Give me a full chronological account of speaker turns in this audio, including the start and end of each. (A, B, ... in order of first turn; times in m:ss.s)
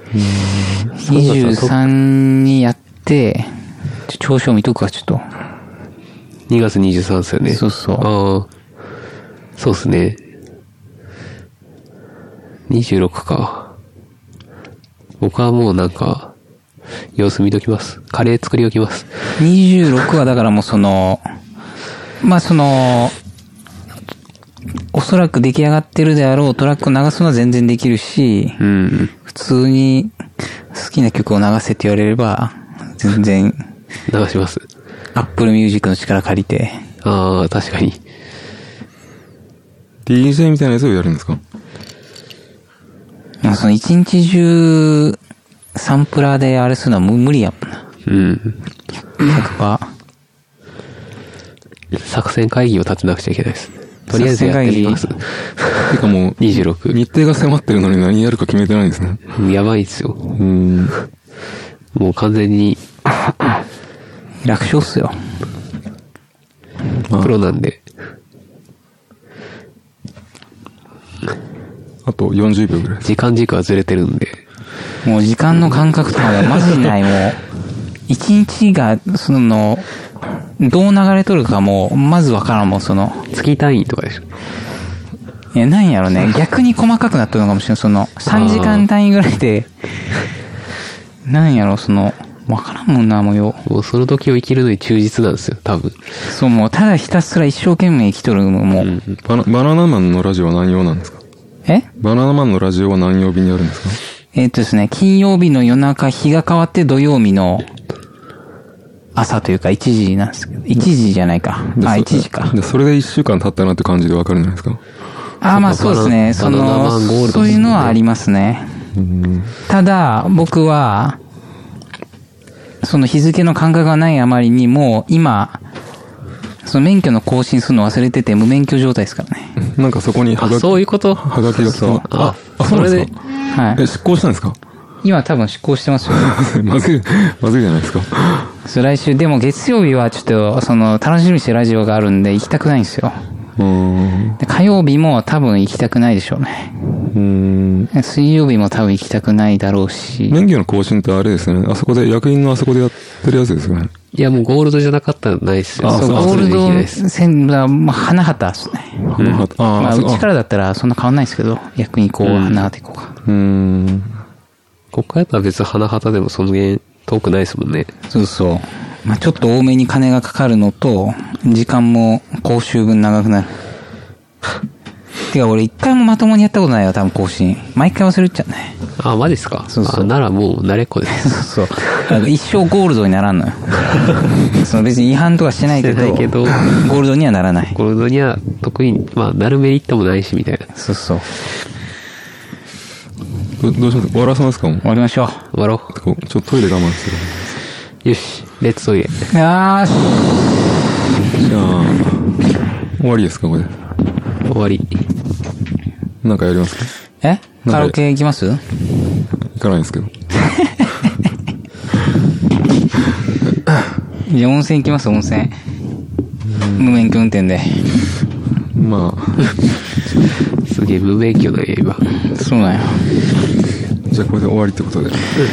0:00.1-0:00.9 A
0:01.0-0:03.6 B
0:01.1-0:01.8 C
0:04.1-0:05.3 B
0:06.5-0:08.5 C
0:07.5-0:08.1 B
0:09.6-0:10.2 C
0:12.7-0:13.7 C
0:15.2-0:16.3 C
0:17.1-0:19.2 C
0:19.4-0:21.3 B
0:22.2-0:23.1 B
0:24.9-0:28.6 B
0:28.6-0:29.1 C
0:29.2-0:30.1 B
0:30.7-0:33.6 B
0:34.1-0:34.6 C
0:35.1-0:36.8 B
0:37.0-0:38.0 C
0:40.0-0:41.4 A
0:43.4-0:45.2 B
0:45.7-0:47.8 B
0:48.0-0:48.6 C
0:49.2-0:49.9 B
0:51.9-0:57.0 C
0:54.1-0:55.2 B
0:55.9-0:59.2 A
0:59.4-1:00.3 C
1:00.3-1:00.9 A
1:01.9-1:02.8 C
1:04.4-1:05.2 B
1:07.2-1:07.8 C
1:12.0-1:13.0 A
1:13.0-1:14.4 C
1:15.0-1:17.4 B
1:18.1-1:19.8 B
1:20.6-1:23.3 B
1:23.3-1:24.2 C
1:25.5-1:29.7 B
1:28.3-1:28.9 C
1:31.2-1:33.6 B
1:33.6-1:36.0 C
1:36.2-1:39.0 B
1:38.8-1:39.2 C
1:39.2-1:41.2 A
1:42.0-1:44.0 A
1:44.3-1:47.7 B
1:49.1-1:52.5 B
1:51.7-1:54.8 A
1:55.4-1:58.8 B
1:55.5-1:58.0 C
1:59.0-1:59.5 A
1:59.7-2:01.2 B
2:02.8-2:05.6 B
2:06.6-2:09.6 B
2:09.6-2:13.2 A
2:10.4-2:13.1 C
2:11.6-2:12.0 B
2:13.5-2:13.8 B
2:13.7-2:14.6 A
2:15.0-2:16.3 B
2:16.1-2:18.5 A
2:18.6-2:23.2 B
2:23.6-2:24.4 A
2:24.4-2:26.9 B
2:27.1-2:27.9 A
2:27.9-2:30.4 B
2:30.3-2:33.9 A
2:34.1-2:37.0 C
2:35.8-2:36.6 A
2:35.9-2:39.0 B
2:39.0-2:40.2 A
2:39.2-2:39.5 C
2:39.8-2:43.1 B
2:42.2-2:42.7 C
2:43.2-2:44.2 A
2:44.9-2:47.9 C
2:48.1-2:53.6 B
2:55.3-2:58.8 B
2:59.0-3:01.4 C
2:59.7-3:00.1 B
3:01.1-3:07.7 B
3:05.7-3:06.6 C
3:07.7-3:10.7 C
3:10.7-3:11.3 B
3:13.6-3:14.8 A
3:14.8-3:15.5 B
3:15.5-3:15.9 C
3:15.9-3:17.6 A
3:18.0-3:19.3 C
3:19.3-3:20.6 B
3:21.4-3:22.4 A
3:23.0-3:23.7 A
3:24.4-3:25.0 C
3:26.2-3:26.9 A
3:27.2-3:28.9 B
3:27.6-3:28.0 A
3:29.5-3:30.1 A
3:30.4-3:31.1 B
3:34.2-3:35.6 B
3:36.5-3:37.0 A
3:36.8-3:38.0 B
3:38.7-3:39.6 A
3:40.6-3:42.0 C
3:42.2-3:43.1 B
3:44.1-3:45.2 A